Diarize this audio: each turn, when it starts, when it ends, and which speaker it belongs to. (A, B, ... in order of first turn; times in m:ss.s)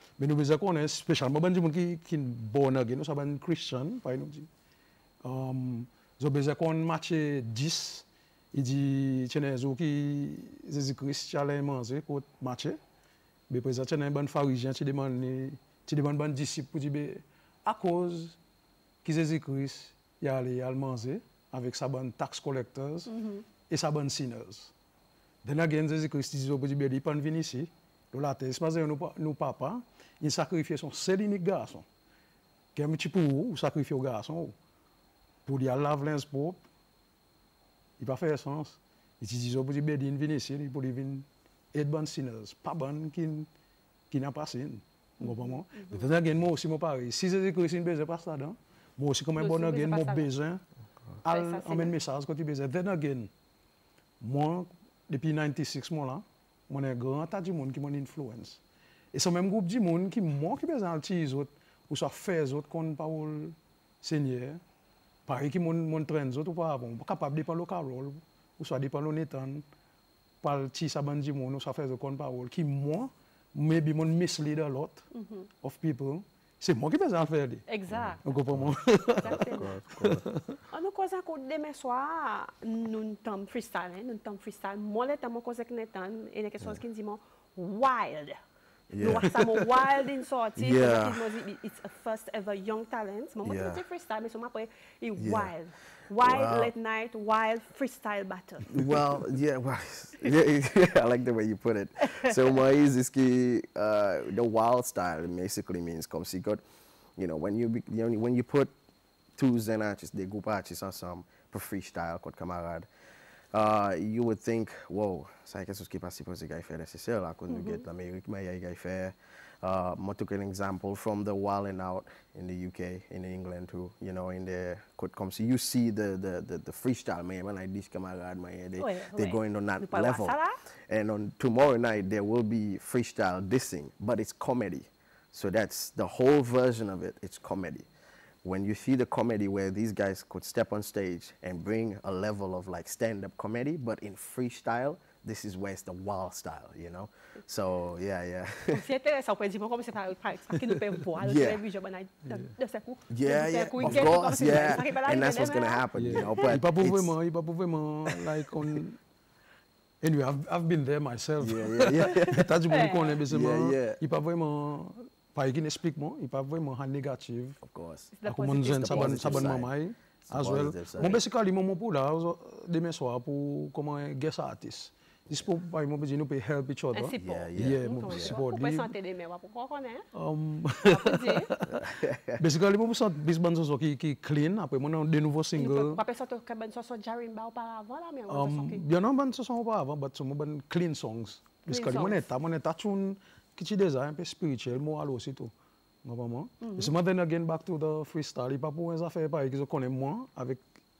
0:00.2-0:04.5 A
0:05.2-0:12.8 A
0:13.5-0:18.4 A
0:19.0-0:23.1 A
0:23.1-0:23.4 B
0:23.7-0:24.7 A
0:25.4-0:31.9 A
0:32.7-0:34.6 A
0:35.4-0:36.6 A
0:38.0-0:43.5 A
0:44.1-0:50.6 A
0:45.2-0:46.1 B
0:49.4-0:50.3 B
0:51.2-0:53.3 A
0:51.3-0:51.9 B
0:54.2-0:58.6 A
0:59.1-1:04.6 A
1:05.3-1:09.6 A
1:10.4-1:15.0 A
1:15.1-1:15.5 B
1:15.6-1:20.6 A
1:17.7-1:18.2 B
1:17.9-1:18.8 C
1:19.2-1:19.7 B
1:19.4-1:20.3 C
1:20.7-1:28.4 B
1:28.9-1:29.6 C
1:29.0-1:38.7 B
1:30.6-1:31.3 C
1:33.4-1:33.8 C
1:35.2-1:35.6 C
1:36.2-1:36.7 C
1:38.7-1:46.6 C
1:47.2-1:48.7 C
1:49.4-1:52.9 C
1:53.5-2:17.9 C
1:57.5-1:57.8 B
2:08.8-2:10.6 B
2:18.4-2:28.9 C
2:28.7-2:36.4 B
2:31.2-2:31.6 C
2:33.1-2:37.2 C
2:33.8-2:34.6 A
2:36.0-2:39.0 A
2:38.1-2:38.8 C
2:40.0-2:47.6 A
2:41.4-2:42.5 C
2:42.7-2:43.2 B
2:43.3-2:44.0 C
2:47.6-2:51.2 C
2:48.1-2:49.6 B
2:48.2-2:58.9 A
2:56.9-3:00.1 B
2:57.2-2:58.4 C
3:00.1-3:06.0 A
3:00.9-3:01.5 B
3:01.8-3:02.4 C
3:05.6-3:08.8 B
3:08.3-3:15.5 A
3:11.7-3:12.3 B
3:16.0-3:20.6 A
3:16.6-3:16.9 B